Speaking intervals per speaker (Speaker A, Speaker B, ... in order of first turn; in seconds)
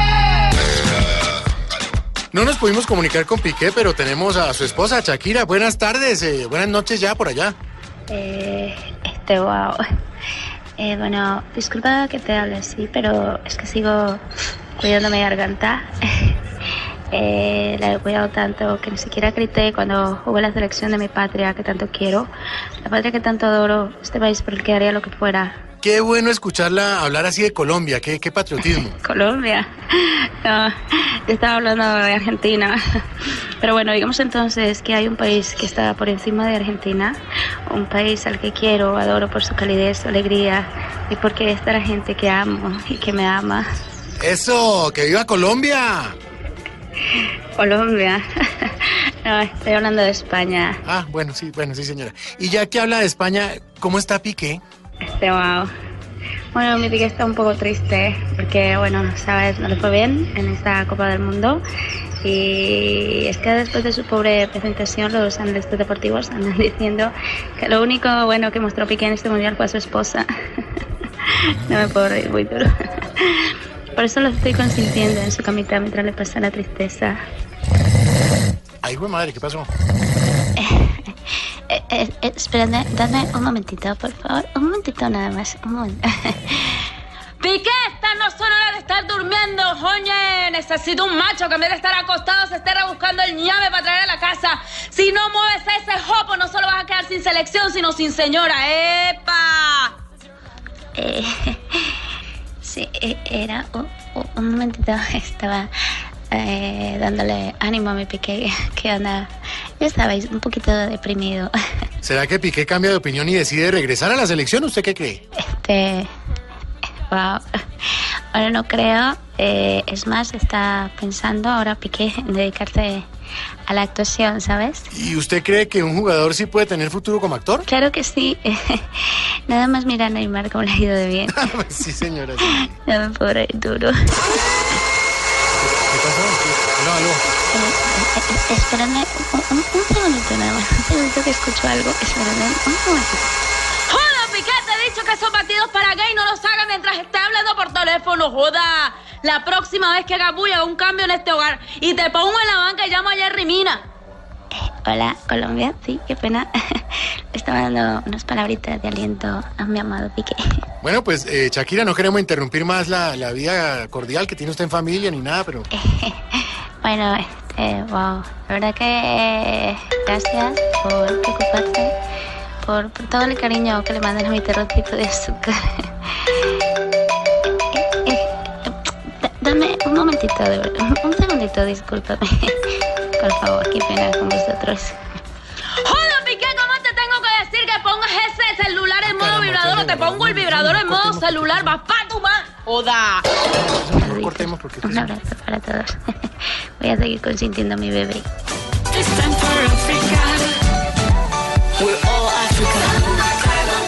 Speaker A: 2.3-7.5, 25.8-29.0, 44.2-46.1, 50.8-54.6, 78.8-79.7, 112.0-115.2, 124.9-127.7, 131.3-132.7, 135.6-137.2, 160.8-165.7, 189.0-191.8, 193.6-195.1
Speaker B: 8.1-9.8, 10.8-14.2, 14.8-16.4, 17.1-22.3, 22.8-25.6, 28.9-43.6, 47.1-50.8, 55.0-55.7, 56.5-61.6, 62.2-70.2, 71.2-77.2, 80.6-81.1, 81.7-86.9, 101.0-102.0, 102.6-105.7, 106.3-111.5, 115.4-116.1, 117.1-123.0, 123.7-124.9, 127.7-131.5, 132.5-134.1, 137.5-143.3, 154.5-160.4, 165.7-171.9, 172.6-176.4, 177.7-185.0, 194.0-198.2
Speaker C: 87.4-99.9, 143.9-153.8, 185.8-193.2
Speaker D: 198.9-200.4, 201.8-203.1